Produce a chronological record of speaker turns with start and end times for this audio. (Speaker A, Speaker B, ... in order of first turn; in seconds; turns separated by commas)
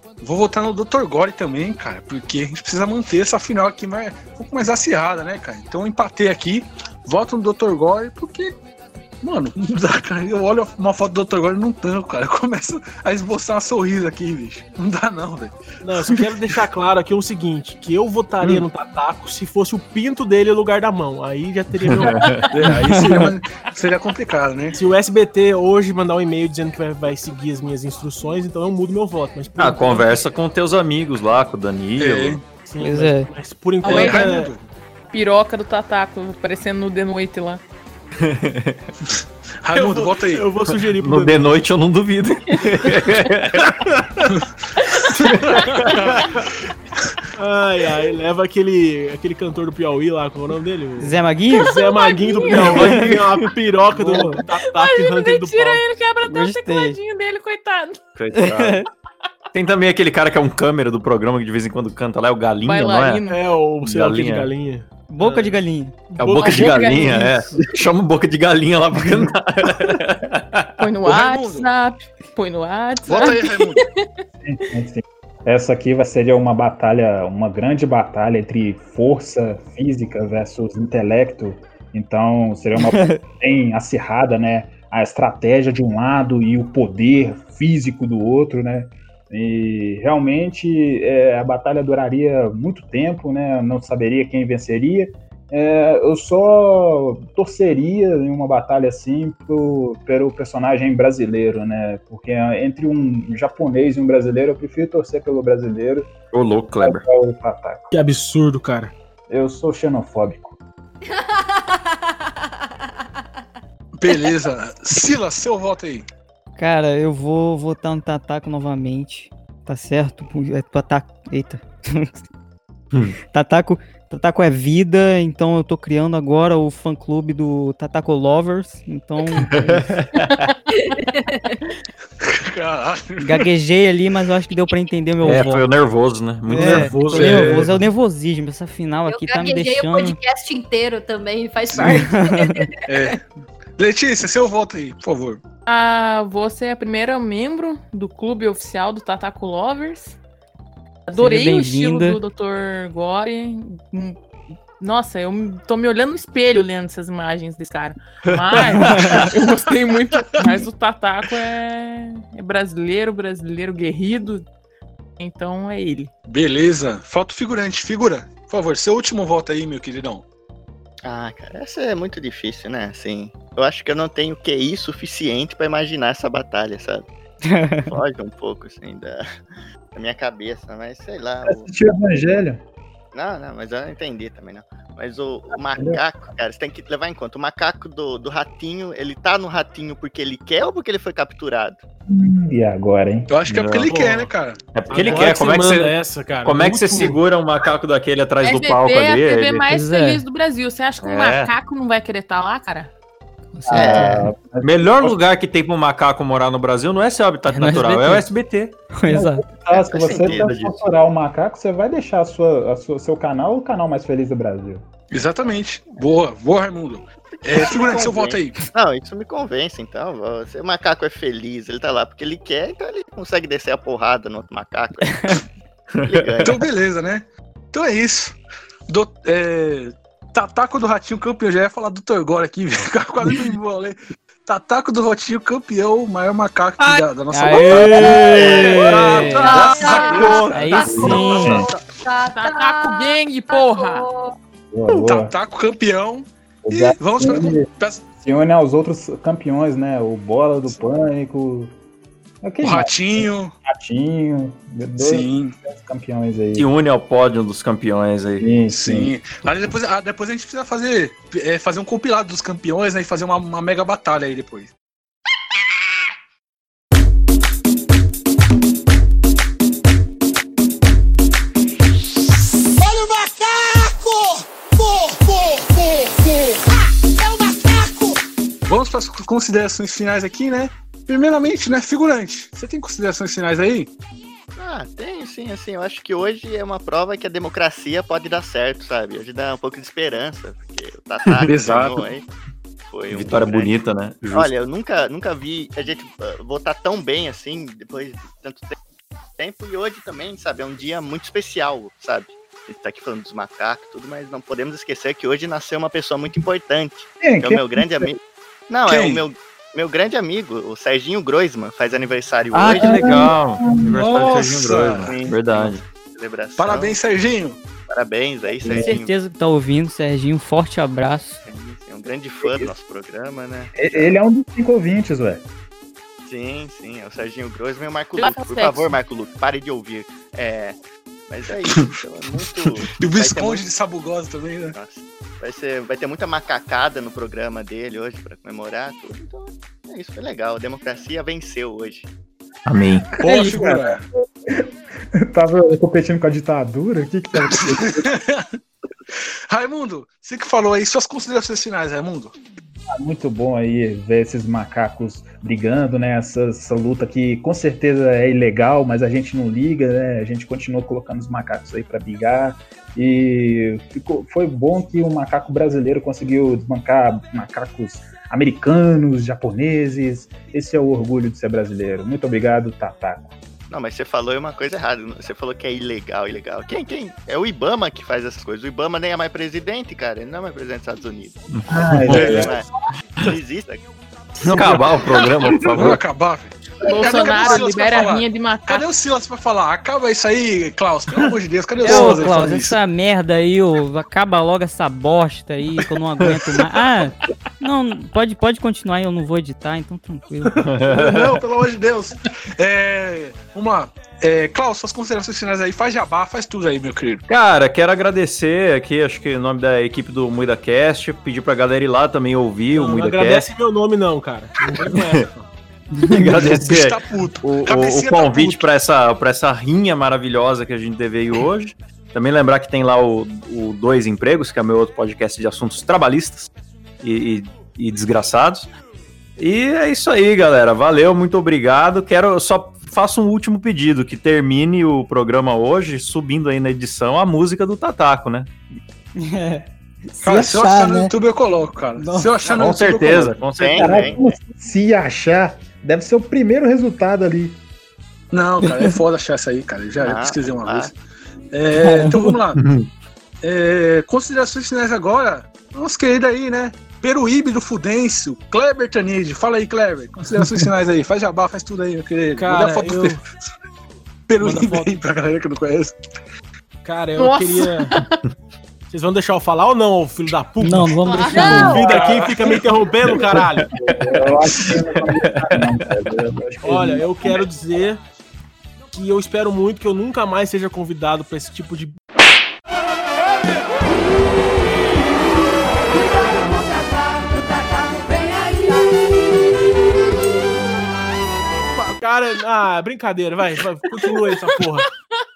Speaker A: 0.2-8.5, Speaker A: 9.2-16.5, Speaker B: 15.8-22.3, Speaker C: 21.9-22.5, Speaker A: 22.5-24.8, Speaker D: 22.8-23.3, Speaker B: 24.7-30.2, Speaker C: 29.6-32.4, Speaker A: 32.0-32.4, Speaker B: 32.5-34.5, Speaker D: 32.8-33.3, Speaker E: 33.8-34.5, Speaker A: 33.8-34.6, Speaker E: 35.1-37.6, Speaker C: 38.2-38.8, Speaker A: 39.6-40.4, Speaker B: 39.7-41.5, Speaker C: 40.7-43.8, Speaker B: 43.6-44.0, Speaker C: 45.3-46.0, Speaker A: 45.9-46.3, Speaker B: 47.4-55.8, Speaker D: 51.0-51.8, Speaker E: 51.5-53.0, Speaker C: 52.6-53.4, Speaker D: 52.7-53.0, Speaker E: 54.1-58.0, Speaker D: 56.3-57.0, Speaker C: 58.1-58.8, Speaker D: 58.4-58.9, Speaker C: 59.5-63.2, Speaker E: 62.6-63.4, Speaker B: 63.3-65.6, Speaker C: 63.8-64.5, Speaker D: 65.1-66.1, Speaker C: 66.2-70.8, Speaker B: 66.2-66.8, Speaker E: 66.3-67.3, Speaker E: 70.8-73.9, Speaker A: 71.0-71.7, Speaker A: 73.0-73.8, Speaker F: 74.4-106.1, Speaker D: 82.8-83.2, Speaker C: 106.3-107.0, Speaker F: 106.8-107.8, Speaker B: 107.9-108.9, Speaker F: 109.3-110.5, Speaker G: 111.1-112.1, Speaker A: 114.0-116.0, Speaker D: 116.6-122.2, Speaker D: 123.3-130.0, Speaker C: 129.5-130.3, Speaker G: 130.7-131.6, Speaker A: 132.2-133.5, Speaker D: 133.2-135.7, Speaker C: 135.2-137.5, Speaker D: 136.5-140.2, Speaker B: 136.5-137.8, Speaker A: 137.1-137.6, Speaker G: 139.1-143.1, Speaker A: 141.7-142.0, Speaker D: 141.8-142.7, Speaker A: 142.9-143.2, Speaker A: 143.8-145.4, Speaker E: 145.7-150.2, Speaker E: 151.1-154.2, Speaker D: 151.1-152.2, Speaker E: 154.8-164.4, Speaker C: 158.5-159.3, Speaker D: 158.8-159.2, Speaker E: 165.2-166.1, Speaker A: 166.3-170.2, Speaker H: 171.0-177.0, Speaker D: 177.4-177.9, Speaker H: 177.9-179.3, Speaker H: 179.9-181.7, Speaker F: 181.5-182.6, Speaker H: 183.1-191.8, Speaker F: 185.8-186.0, Speaker F: 192.1-193.3, Speaker A: 193.3-194.6, Speaker C: 193.5-193.9, Speaker B: 193.9-194.3, Speaker C: 194.7-199.7, Speaker B: 194.9-197.2, Speaker E: 198.4-202.9, Speaker D: 199.7-200.2, Speaker C: 201.0-201.5, Speaker D: 203.5-204.4, Speaker F: 203.7-205.2, Speaker H: 203.8-204.1, Speaker C: 204.6-208.7, Speaker D: 207.5-208.3, Speaker D: 208.9-209.4, Speaker F: 209.1-214.8, Speaker H: 209.7-210.5, Speaker C: 210.2-210.8, Speaker A: 215.1-218.6, Speaker H: 217.3-225.4, Speaker C: 225.9-226.4, Speaker H: 226.0-226.6, Speaker A: 226.4-228.4, Speaker A: 228.9-241.2, Speaker D: 237.3-239.6, Speaker C: 238.1-241.2, Speaker H: 238.2-239.1, Speaker G: 239.3-244.4, Speaker E: 239.6-241.7, Speaker D: 240.9-241.4, Speaker F: 240.9-241.7, Speaker E: 242.3-244.1, Speaker F: 244.7-245.3, Speaker A: 244.9-248.1, Speaker F: 246.7-247.7, Speaker F: 248.2-251.7, Speaker F: 252.4-256.6, Speaker A: 252.6-253.5, Speaker A: 255.0-255.6, Speaker C: 256.6-258.5, Speaker F: 258.4-259.1, Speaker A: 258.7-264.7, Speaker I: 277.2-278.1, Speaker A: 278.6-283.9, Speaker H: 284.5-292.2, Speaker A: 291.4-292.0, Speaker H: 292.9-293.7, Speaker C: 293.1-294.5, Speaker H: 294.3-298.8, Speaker H: 299.4-308.2, Speaker F: 307.2-308.1, Speaker H: 308.7-313.3, Speaker A: 308.9-309.2, Speaker C: 312.5-315.8, Speaker F: 312.8-313.9, Speaker A: 313.9-315.1, Speaker H: 314.7-317.0, Speaker A: 316.6-317.6, Speaker H: 317.9-319.1, Speaker F: 318.6-318.9, Speaker D: 318.7-321.4, Speaker H: 321.4-324.1, Speaker F: 322.4-322.7, Speaker F: 323.7-325.4, Speaker H: 326.2-330.8, Speaker E: 328.1-328.9, Speaker H: 331.3-333.6, Speaker A: 333.0-334.8, Speaker H: 334.7-342.1, Speaker C: 342.6-343.1, Speaker A: 343.2-344.0, Speaker F: 343.2-343.9, Speaker F: 344.5-348.1, Speaker A: 347.8-348.4, Speaker A: 349.5-352.3, Speaker F: 352.9-373.3, Speaker H: 373.7-381.4, Speaker C: 381.5-382.2, Speaker F: 381.7-382.5, Speaker H: 382.1-382.7, Speaker A: 382.1-382.5, Speaker H: 383.2-383.8, Speaker C: 384.4-386.0, Speaker A: 385.7-392.8, Speaker E: 386.8-388.8, Speaker D: 391.8-400.6, Speaker C: 400.6-401.4, Speaker A: 400.9-407.2, Speaker C: 407.3-413.5, Speaker B: 412.7-415.4, Speaker C: 416.1-426.5, Speaker A: 416.2-418.7, Speaker C: 427.0-428.7, Speaker C: 429.4-438.5, Speaker D: 439.2-441.1, Speaker A: 440.2-443.4, Speaker D: 442.0-442.4, Speaker C: 442.5-444.1, Speaker H: 443.6-444.2, Speaker F: 443.8-447.6, Speaker A: 448.3-450.9, Speaker H: 450.0-450.9, Speaker A: 451.5-452.6, Speaker D: 451.8-452.4, Speaker C: 452.6-452.9, Speaker A: 453.4-463.2, Speaker B: 462.4-463.2, Speaker A: 464.3-465.9, Speaker D: 464.4-464.9, Speaker B: 466.8-467.9, Speaker E: 467.1-468.0, Speaker B: 468.9-473.7, Speaker D: 470.6-472.1, Speaker E: 471.0-471.8, Speaker G: 471.3-472.0, Speaker F: 471.9-472.6, Speaker C: 473.1-475.9, Speaker F: 473.7-477.4, Speaker B: 476.6-478.0, Speaker B: 478.9-481.9, Speaker I: 485.9-489.1, Speaker B: 491.7-494.9